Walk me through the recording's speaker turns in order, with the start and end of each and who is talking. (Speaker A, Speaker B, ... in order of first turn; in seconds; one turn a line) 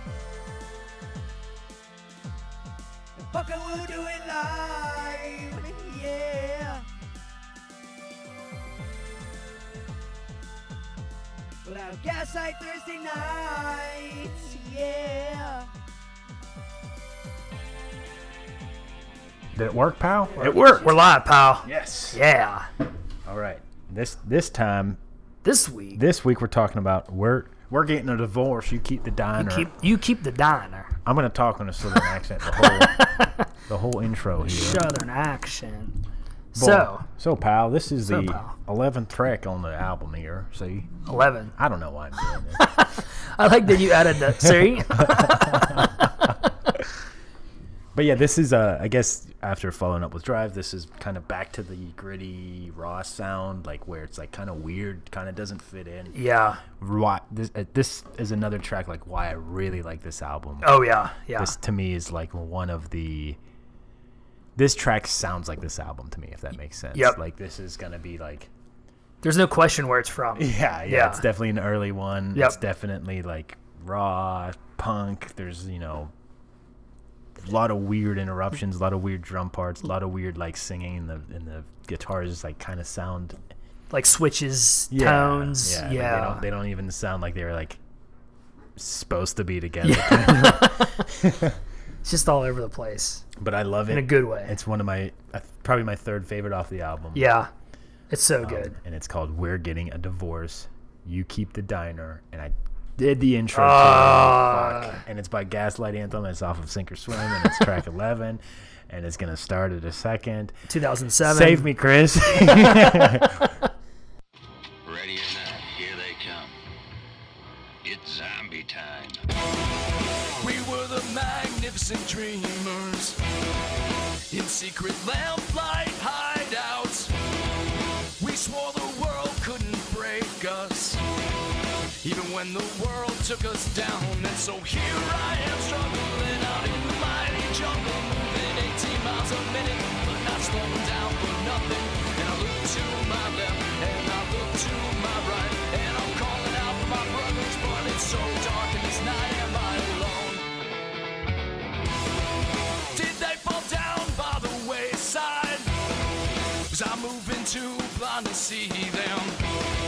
Speaker A: 3.2-6.9
Speaker A: 11.6-15.7
Speaker B: 19.5-20.9
Speaker C: 20.5-22.7
Speaker B: 21.6-22.2
Speaker B: 23.2-25.0
Speaker C: 25.4-26.0
Speaker B: 25.9-29.7
Speaker C: 29.4-30.9
Speaker B: 31.0-34.9
Speaker C: 32.0-33.4
Speaker C: 34.4-36.0
Speaker C: 36.5-37.0
Speaker B: 36.5-40.9
Speaker C: 38.1-38.5
Speaker C: 41.0-41.5
Speaker B: 41.5-42.7
Speaker C: 42.3-46.7
Speaker B: 44.4-46.0
Speaker B: 47.9-56.1
Speaker C: 56.1-56.6
Speaker B: 56.8-63.4
Speaker C: 60.6-61.6
Speaker B: 64.5-68.5
Speaker C: 69.2-71.2
Speaker B: 70.3-76.1
Speaker C: 72.3-72.6
Speaker B: 77.4-83.4
Speaker C: 83.9-86.5
Speaker B: 84.9-87.8
Speaker B: 88.8-91.5
Speaker C: 89.8-91.1
Speaker C: 92.0-93.2
Speaker B: 93.4-97.3
Speaker C: 93.9-94.5
Speaker C: 97.1-97.5
Speaker C: 98.1-98.7
Speaker B: 98.4-110.5
Speaker C: 103.5-105.0
Speaker C: 110.7-111.7
Speaker B: 111.2-113.5
Speaker C: 112.3-113.7
Speaker D: 114.8-116.5
Speaker D: 117.8-119.2
Speaker E: 120.4-123.2
Speaker E: 124.3-127.1
Speaker E: 128.2-131.0
Speaker E: 132.0-150.4
Speaker E: 152.9-155.7
Speaker E: 156.7-159.5